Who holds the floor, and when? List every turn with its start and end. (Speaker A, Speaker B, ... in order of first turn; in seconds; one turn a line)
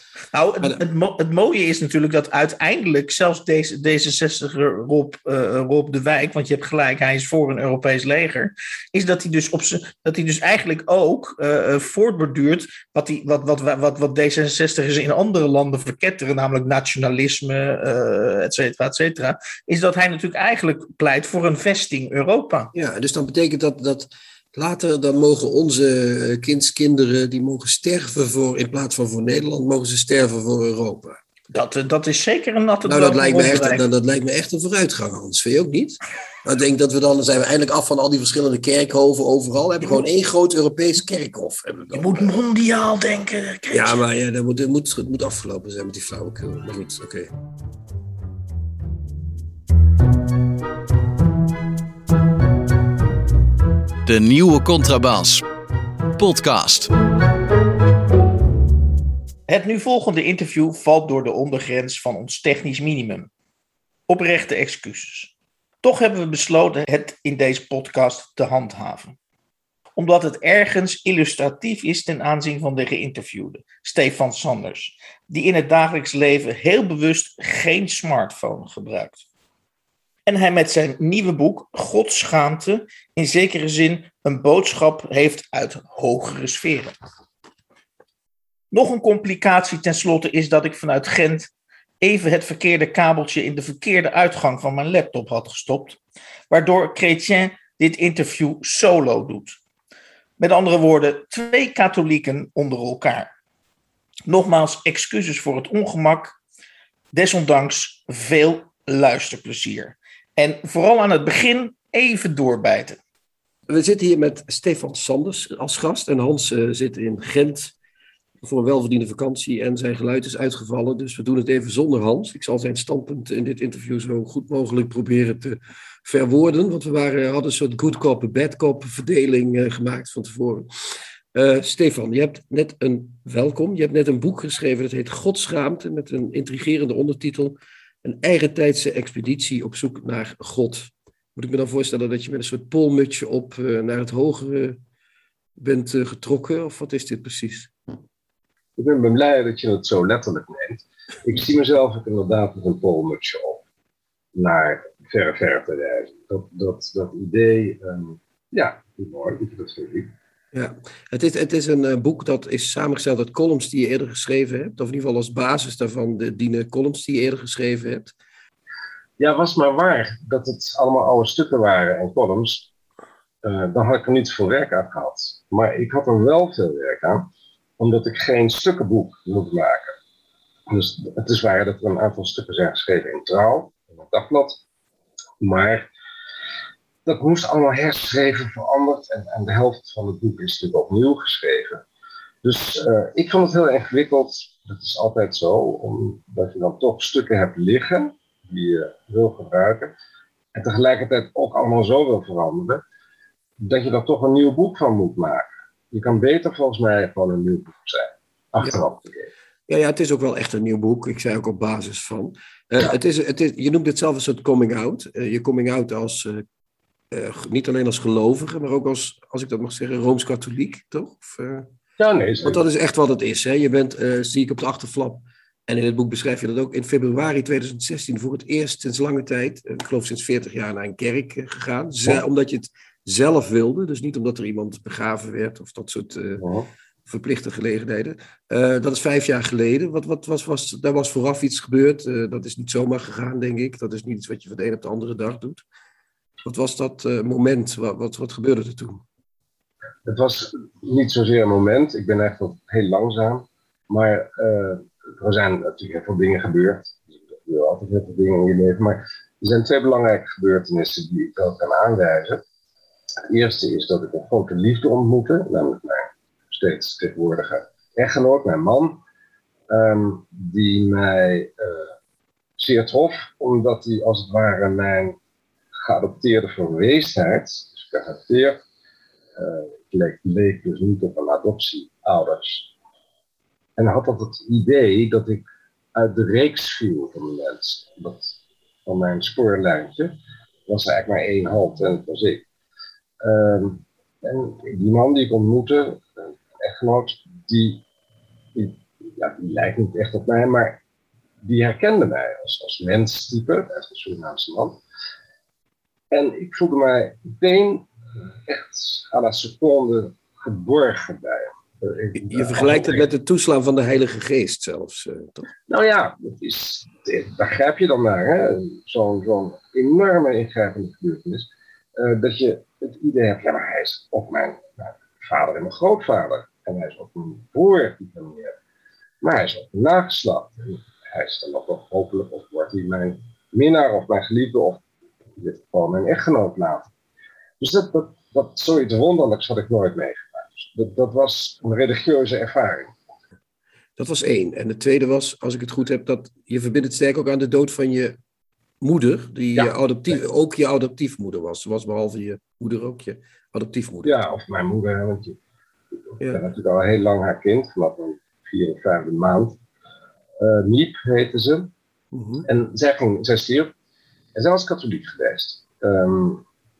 Speaker A: 0.3-22.7
Speaker B: 22.7-31.2
Speaker A: 31.5-33.8
Speaker B: 32.8-42.4
Speaker A: 41.9-44.0
Speaker B: 43.7-47.3
Speaker C: 54.0-55.4
Speaker C: 56.2-56.9
Speaker A: 59.5-63.3
Speaker A: 64.1-69.1
Speaker A: 70.0-79.2
Speaker A: 80.2-86.9
Speaker A: 88.7-96.0
Speaker A: 96.5-99.6
Speaker A: 100.4-103.3
Speaker A: 104.3-106.3
Speaker A: 107.1-113.0
Speaker B: 113.7-117.7
Speaker B: 118.4-130.7
Speaker B: 131.3-144.8
Speaker B: 145.6-147.7
Speaker D: 148.8-153.6
Speaker D: 154.3-160.1
Speaker B: 160.5-168.1
Speaker D: 169.2-172.7
Speaker D: 173.4-177.3
Speaker D: 177.8-179.9
Speaker D: 180.7-184.6
Speaker D: 185.4-185.9
Speaker D: 187.1-191.8
Speaker D: 192.4-199.9
Speaker D: 200.5-202.8
Speaker D: 203.6-209.3
Speaker B: 209.7-216.4
Speaker B: 217.1-221.7
Speaker D: 222.0-222.6
Speaker B: 222.4-236.4
Speaker D: 236.4-236.7
Speaker B: 237.1-245.6
Speaker B: 246.4-249.0
Speaker D: 250.1-262.4
Speaker D: 263.3-269.0
Speaker D: 269.7-271.9
Speaker D: 272.6-275.2
Speaker D: 275.8-278.6
Speaker D: 279.4-282.7
Speaker D: 283.8-290.1
Speaker D: 290.7-292.4
Speaker D: 293.2-296.1
Speaker D: 296.6-297.8
Speaker D: 298.5-300.8
Speaker D: 301.4-304.8
Speaker D: 306.1-307.9
Speaker D: 308.4-313.1
Speaker B: 312.1-315.5
Speaker D: 315.7-328.6
Speaker D: 329.2-334.8
Speaker D: 335.4-336.9
Speaker D: 337.6-343.0
Speaker B: 344.0-348.2
Speaker B: 348.8-354.2
Speaker D: 349.5-350.1
Speaker D: 354.0-355.4
Speaker D: 356.0-359.6
Speaker D: 360.4-361.7
Speaker B: 362.1-362.4
Speaker D: 362.4-363.7
Speaker D: 364.3-366.4